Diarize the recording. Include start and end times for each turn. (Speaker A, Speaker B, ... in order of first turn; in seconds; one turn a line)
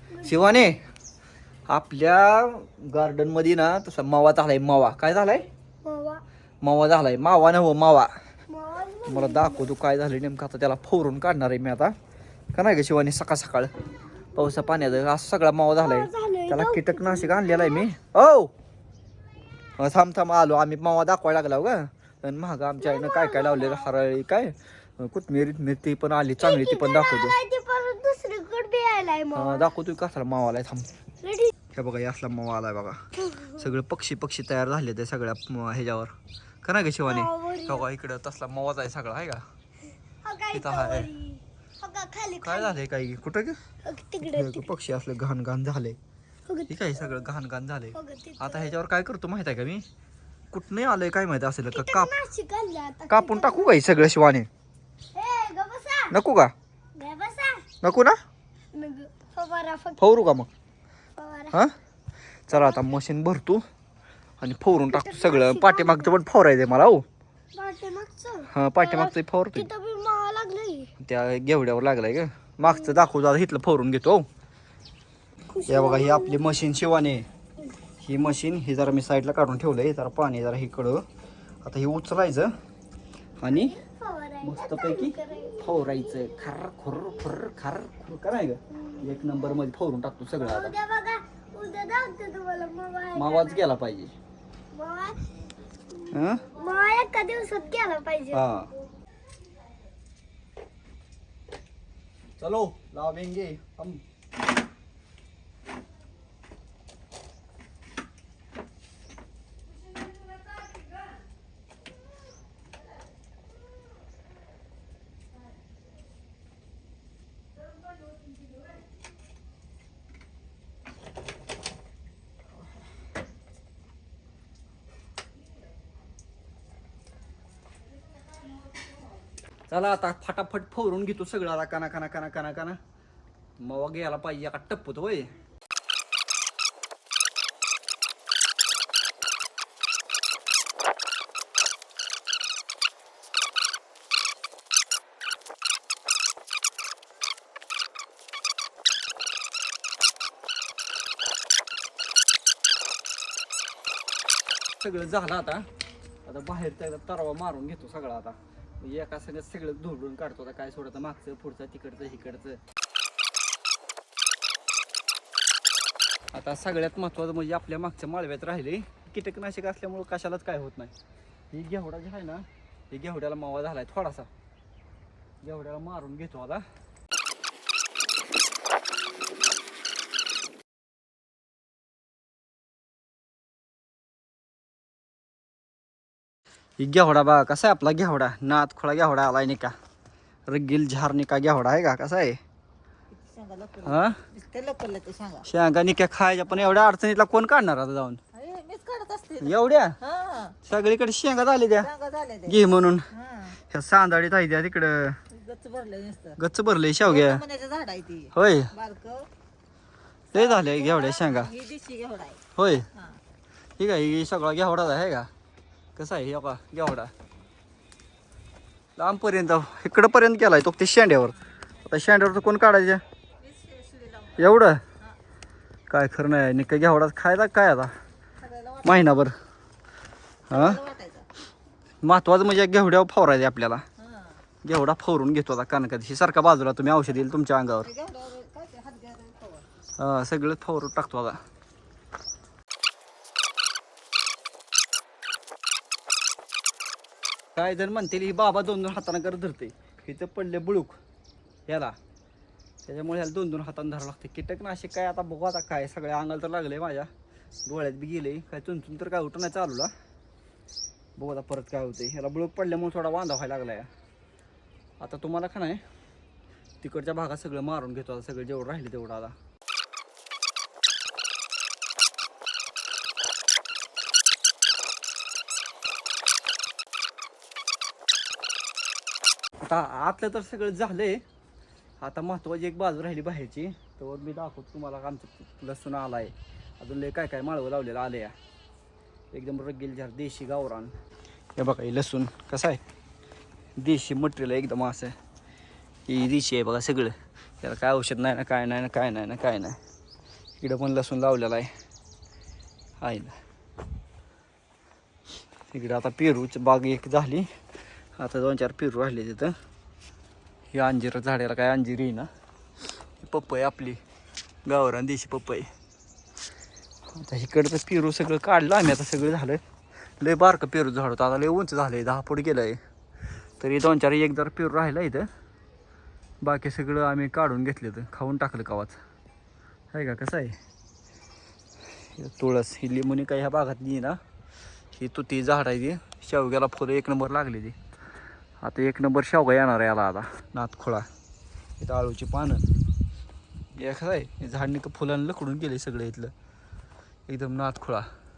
Speaker A: 0.1-0.4
Speaker B: 0.2-0.7
Speaker B: 1.7-5.5
Speaker A: 5.8-6.2
Speaker B: 6.6-8.1
Speaker A: 8.5-9.7
Speaker B: 9.1-11.9
Speaker B: 12.5-13.7
Speaker B: 14.3-18.5
Speaker A: 15.8-17.9
Speaker B: 19.8-27.4
Speaker A: 22.8-23.9
Speaker A: 26.4-29.7
Speaker B: 29.3-30.9
Speaker A: 31.2-31.5
Speaker B: 31.7-36.1
Speaker A: 33.2-33.6
Speaker B: 36.6-39.4
Speaker A: 37.0-37.9
Speaker A: 40.2-42.8
Speaker B: 40.5-41.1
Speaker B: 42.4-43.6
Speaker A: 43.8-44.7
Speaker B: 44.2-46.0
Speaker A: 46.5-47.2
Speaker B: 46.7-49.8
Speaker A: 47.9-48.7
Speaker B: 50.5-52.1
Speaker A: 51.7-53.8
Speaker B: 53.1-54.5
Speaker A: 55.1-56.1
Speaker B: 56.1-56.5
Speaker A: 57.0-57.7
Speaker B: 57.8-58.2
Speaker A: 58.7-60.0
Speaker B: 60.0-60.5
Speaker A: 61.2-61.6
Speaker B: 62.5-63.6
Speaker A: 62.5-62.9
Speaker B: 64.4-67.0
Speaker A: 64.9-66.1
Speaker A: 67.5-70.9
Speaker B: 68.5-69.7
Speaker B: 71.0-74.2
Speaker A: 72.6-73.0
Speaker A: 75.5-76.4
Speaker B: 75.7-77.2
Speaker B: 78.0-81.0
Speaker B: 81.6-82.5
Speaker B: 83.4-83.8
Speaker A: 83.5-86.3
Speaker B: 84.4-90.7
Speaker A: 90.4-93.7
Speaker B: 93.1-94.1
Speaker A: 94.7-95.3
Speaker A: 95.9-98.5
Speaker B: 96.1-96.5
Speaker B: 98.3-98.7
Speaker B: 102.4-104.0
Speaker B: 129.7-132.8
Speaker B: 133.6-135.3
Speaker B: 154.8-155.7
Speaker B: 156.2-162.6
Speaker B: 166.3-170.9
Speaker B: 171.5-174.3
Speaker B: 175.4-176.6
Speaker B: 186.8-189.7
Speaker B: 190.5-192.4
Speaker C: 193.1-195.4
Speaker B: 193.8-194.2
Speaker B: 195.4-198.2
Speaker C: 198.3-200.6
Speaker B: 199.4-200.0
Speaker B: 200.6-201.9
Speaker C: 201.8-203.6
Speaker B: 202.4-205.2
Speaker C: 205.3-206.4
Speaker B: 206.4-207.4
Speaker C: 207.0-209.3
Speaker B: 208.3-208.7
Speaker C: 210.3-212.4
Speaker B: 210.3-211.5
Speaker B: 212.5-212.9
Speaker C: 212.9-213.2
Speaker B: 213.8-215.3
Speaker B: 215.9-217.1
Speaker B: 219.0-223.0
Speaker C: 223.4-225.2
Speaker B: 224.3-224.8
Speaker B: 225.9-227.9
Speaker C: 228.4-229.1
Speaker B: 228.8-229.3
Speaker B: 230.5-230.8
Speaker C: 230.5-231.3
Speaker B: 232.0-233.8
Speaker C: 234.0-234.4
Speaker B: 234.6-237.9
Speaker C: 237.8-239.7
Speaker B: 240.0-241.4
Speaker B: 247.6-251.0
Speaker B: 251.7-251.9
Speaker B: 252.8-257.1
Speaker B: 257.6-259.9
Speaker B: 261.2-263.9
Speaker B: 265.0-265.8
Speaker B: 266.8-269.3
Speaker B: 279.6-281.2
Speaker B: 282.0-288.3
Speaker B: 289.3-290.9
Speaker B: 291.6-292.8
Speaker B: 293.8-295.1
Speaker B: 296.1-299.8
Speaker B: 300.6-301.7
Speaker B: 303.0-303.3
Speaker B: 305.7-307.5
Speaker B: 308.2-309.5
Speaker B: 310.7-312.3
Speaker B: 313.2-314.0
Speaker B: 314.6-315.7
Speaker B: 317.1-319.6
Speaker B: 320.2-322.8
Speaker B: 323.6-325.3
Speaker B: 326.4-329.0
Speaker B: 329.9-330.6
Speaker B: 332.1-334.2
Speaker B: 334.9-337.8
Speaker B: 338.6-341.1
Speaker B: 341.8-342.6
Speaker B: 343.8-346.3
Speaker B: 347.3-348.1